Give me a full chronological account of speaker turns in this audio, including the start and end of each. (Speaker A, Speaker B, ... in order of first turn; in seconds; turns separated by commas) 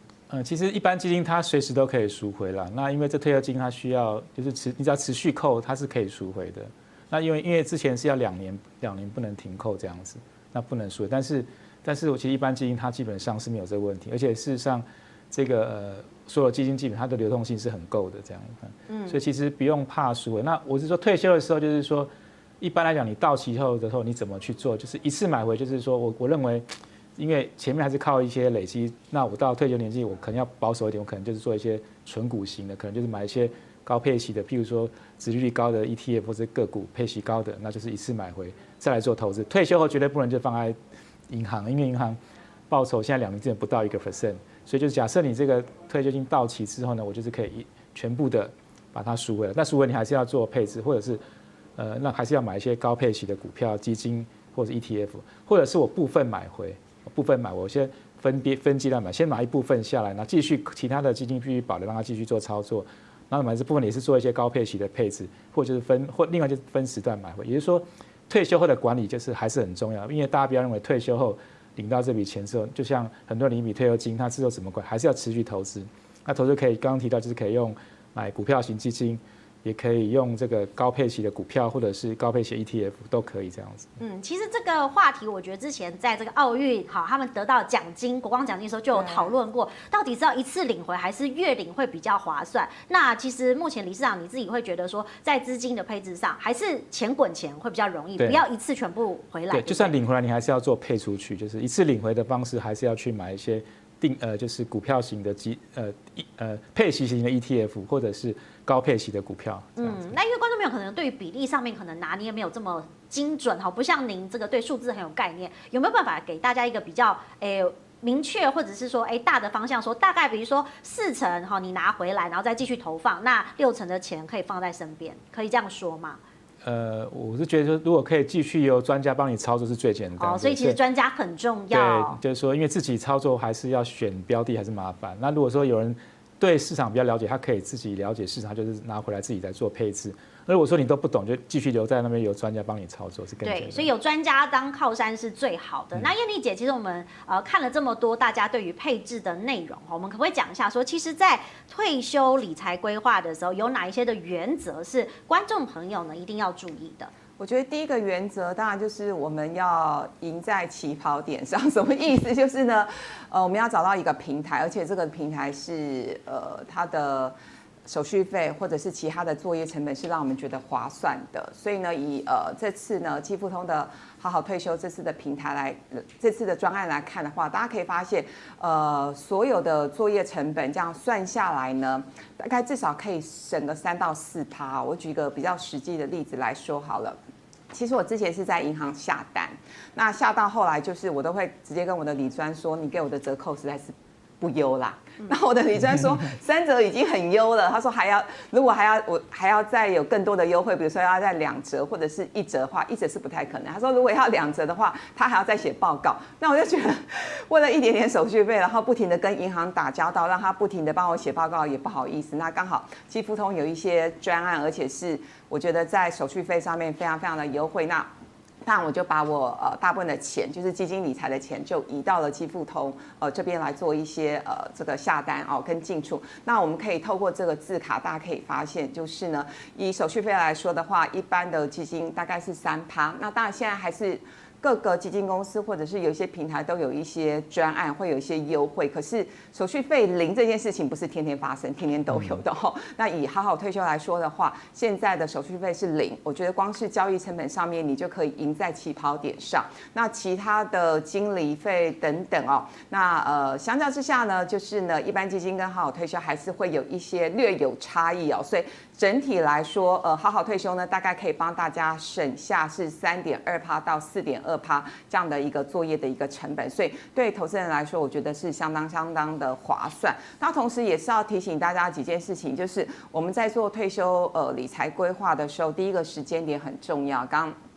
Speaker A: 0.3-22.1, Speaker B: 18.9-19.2, Speaker A: 22.6-26.7, Speaker A: 27.2-40.8, Speaker A: 41.3-42.2, Speaker A: 42.7-51.2, Speaker A: 51.8-83.9, Speaker B: 84.0-100.0, Speaker C: 88.9-89.3, Speaker A: 99.5-110.1, Speaker B: 109.8-126.2, Speaker A: 126.6-130.8, Speaker B: 130.2-132.2, Speaker A: 131.7-143.9, Speaker B: 143.4-157.1, Speaker C: 157.4-167.3, Speaker C: 167.8-187.2, Speaker C: 187.7-218.1, Speaker C: 218.7-277.5